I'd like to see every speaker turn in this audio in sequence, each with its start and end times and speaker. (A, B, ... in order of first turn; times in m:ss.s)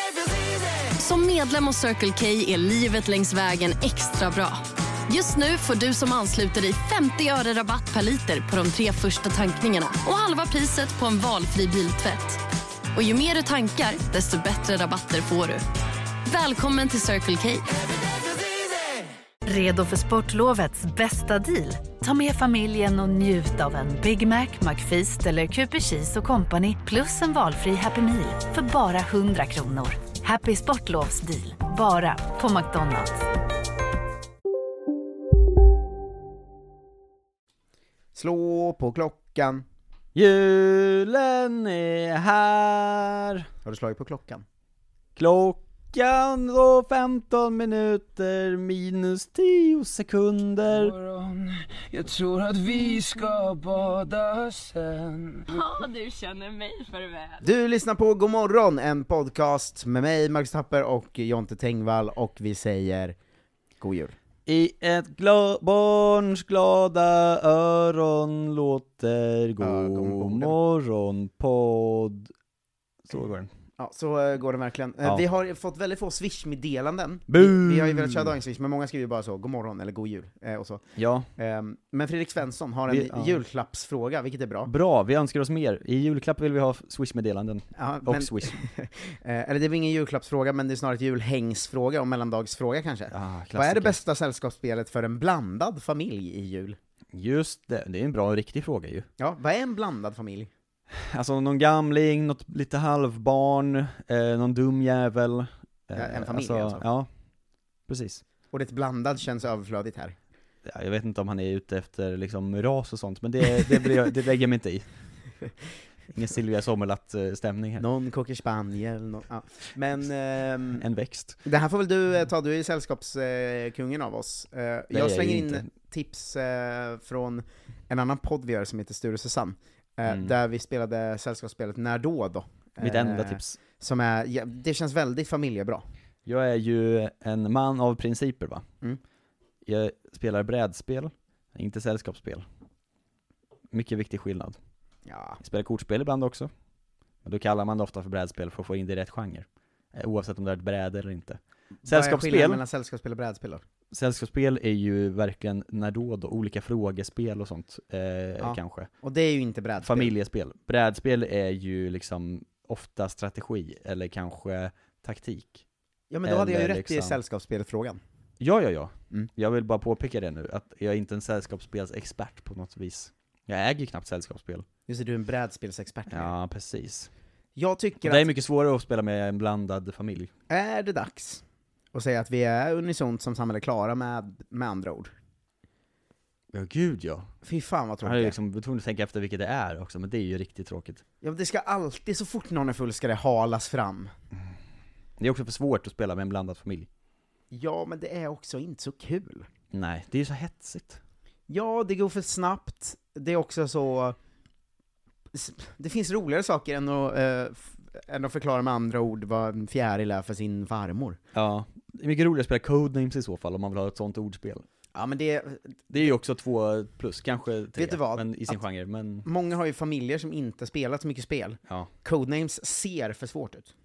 0:01.0-0:12.4 A
0:12.9-0:15.6 A
0:16.3-0:17.7 A
0:19.5-0:33.2 B
0:38.2-0:39.6 C
0:40.2-0:43.4 D
0:43.6-0:44.4 C
0:45.2-0:51.0 D
0:51.8-0:55.3 E
0:57.4-1:03.2 C
1:03.8-1:04.2 C
1:04.5-1:12.3 D
1:09.6-1:10.6 C
1:13.1-1:13.5 D
1:13.8-1:20.8 C
1:17.3-1:18.4 D
1:21.0-1:21.3 D
1:21.4-1:24.7 C
1:22.9-1:23.4 D
1:24.6-1:28.6 D
1:27.8-1:36.8 C
1:33.1-1:34.0 D
1:37.1-1:39.1 D
1:39.2-1:40.5 C
1:40.9-1:47.1 D
1:45.9-1:46.9 C
1:47.9-1:48.2 D
1:48.5-1:50.2 C
1:50.6-1:54.8 D
1:56.1-1:57.8 D
1:57.8-2:00.8 C
2:00.8-2:01.4 D
2:01.4-2:15.8 C
2:04.9-2:05.7 D
2:10.1-2:10.3 D
2:12.8-2:13.6 D
2:16.3-2:18.6 D
2:19.6-2:22.4 D
2:23.7-2:24.6 D
2:25.1-2:25.4 C
2:25.4-2:26.5 D
2:27.2-2:32.6 D
2:31.8-2:33.6 C
2:33.9-2:38.9 D
2:38.4-2:40.2 C
2:39.8-2:45.6 D
2:46.1-2:48.0 C
2:46.2-2:47.2 D
2:48.4-2:54.6 D
2:54.9-2:56.3 C
2:56.1-2:57.1 D
2:57.6-2:58.3 C
2:58.0-3:00.3 D
3:00.5-3:05.1 C
3:06.5-3:07.3 D
3:07.4-3:08.4 C
3:08.0-3:11.0 D
3:11.2-3:14.1 C
3:15.2-3:16.9 D
3:17.5-3:19.5 C
3:19.7-3:21.0 D
3:21.5-3:24.2 C
3:25.3-3:31.2 C
3:31.3-3:34.6 D
3:34.9-3:35.8 C
3:35.9-3:39.3 D
3:37.8-3:38.6 C
3:39.2-3:43.7 C